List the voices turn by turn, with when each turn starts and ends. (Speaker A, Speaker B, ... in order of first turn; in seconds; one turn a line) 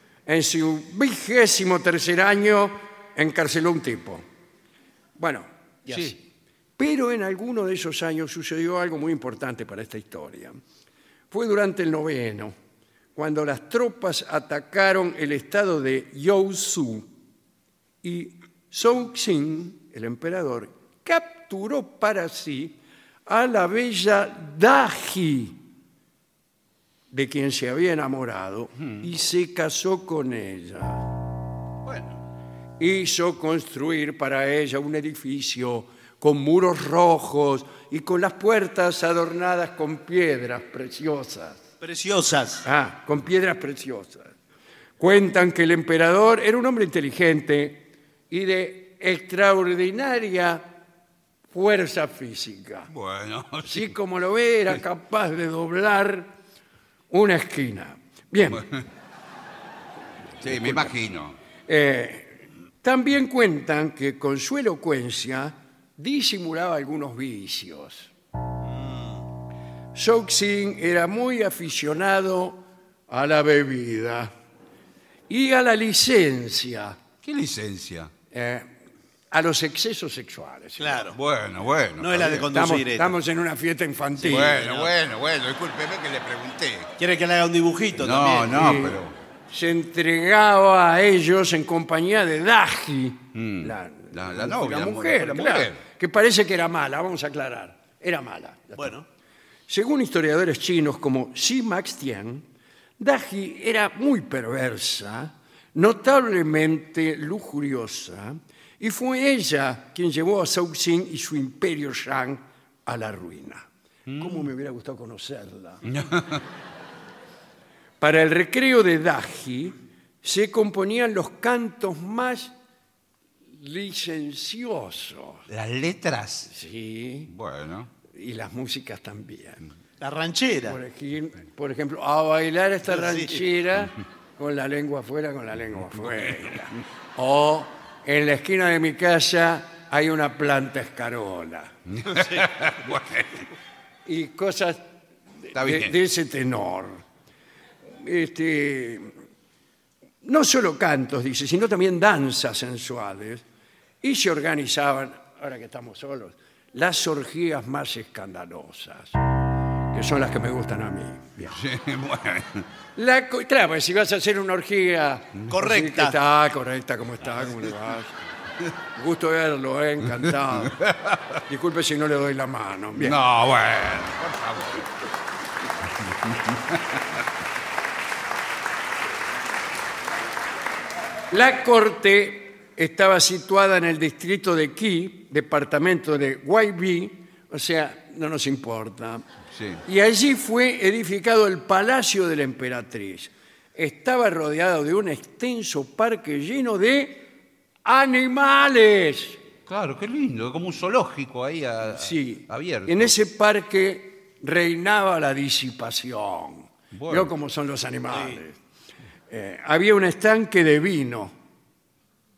Speaker A: 0.2-4.2
Speaker A: 5.2-6.2
Speaker B: 5.9-6.2
Speaker A: 6.8-10.6
Speaker A: 11.3-12.5
Speaker A: 13.1-17.1
Speaker A: 18.0-25.6
Speaker A: 27.1-31.1
Speaker B: 31.8-32.2
Speaker A: 32.8-41.6
Speaker C: 41.8-42.6
Speaker A: 42.6-44.3
Speaker A: 45.0-50.8
Speaker A: 51.5-52.9
Speaker B: 52.9-53.9
Speaker A: 53.6-56.3
Speaker A: 57.1-58.7
Speaker A: 60.4-61.0
Speaker B: 60.4-61.4
Speaker A: 61.7-68.1
Speaker C: 68.7-69.2
Speaker A: 69.9-74.3
Speaker A: 75.3-77.0
Speaker B: 77.2-78.1
Speaker A: 78.3-78.7
Speaker A: 79.3-81.0
Speaker C: 80.8-81.2
Speaker B: 81.1-82.5
Speaker C: 82.0-83.2
Speaker A: 82.5-84.6
Speaker B: 84.2-86.9
Speaker C: 84.2-84.9
Speaker C: 87.0-88.6
Speaker B: 88.0-89.1
Speaker A: 88.5-89.0
Speaker A: 89.5-98.9
Speaker B: 93.3-95.8
Speaker C: 98.8-99.0
Speaker A: 99.7-102.4
Speaker A: 103.0-115.8
Speaker B: 114.1-114.5
Speaker B: 115.9-116.4
Speaker A: 118.0-122.5
Speaker A: 123.5-125.5
Speaker B: 125.5-126.5
Speaker A: 126.5-127.3
Speaker B: 127.3-127.9
Speaker A: 128.1-129.6
Speaker C: 130.0-130.8
Speaker A: 130.7-141.7
Speaker C: 132.9-133.4
Speaker B: 141.9-143.4
Speaker A: 144.1-144.9
Speaker A: 145.4-147.0
Speaker B: 145.5-145.9
Speaker A: 148.0-149.1
Speaker A: 150.2-153.4
Speaker A: 154.0-159.2
Speaker A: 159.9-161.6
Speaker B: 161.5-162.7
Speaker A: 162.9-168.2
Speaker C: 165.5-166.2
Speaker A: 168.9-170.8
Speaker B: 170.6-171.4
Speaker A: 171.5-173.2
Speaker B: 172.9-174.9
Speaker B: 176.1-177.0
Speaker A: 181.3-189.2
Speaker B: 189.5-189.8
Speaker A: 189.9-197.3
Speaker A: 197.8-199.4
Speaker B: 199.7-203.1
Speaker A: 201.9-208.6
Speaker B: 206.9-207.3
Speaker C: 208.1-208.4
Speaker A: 209.3-211.3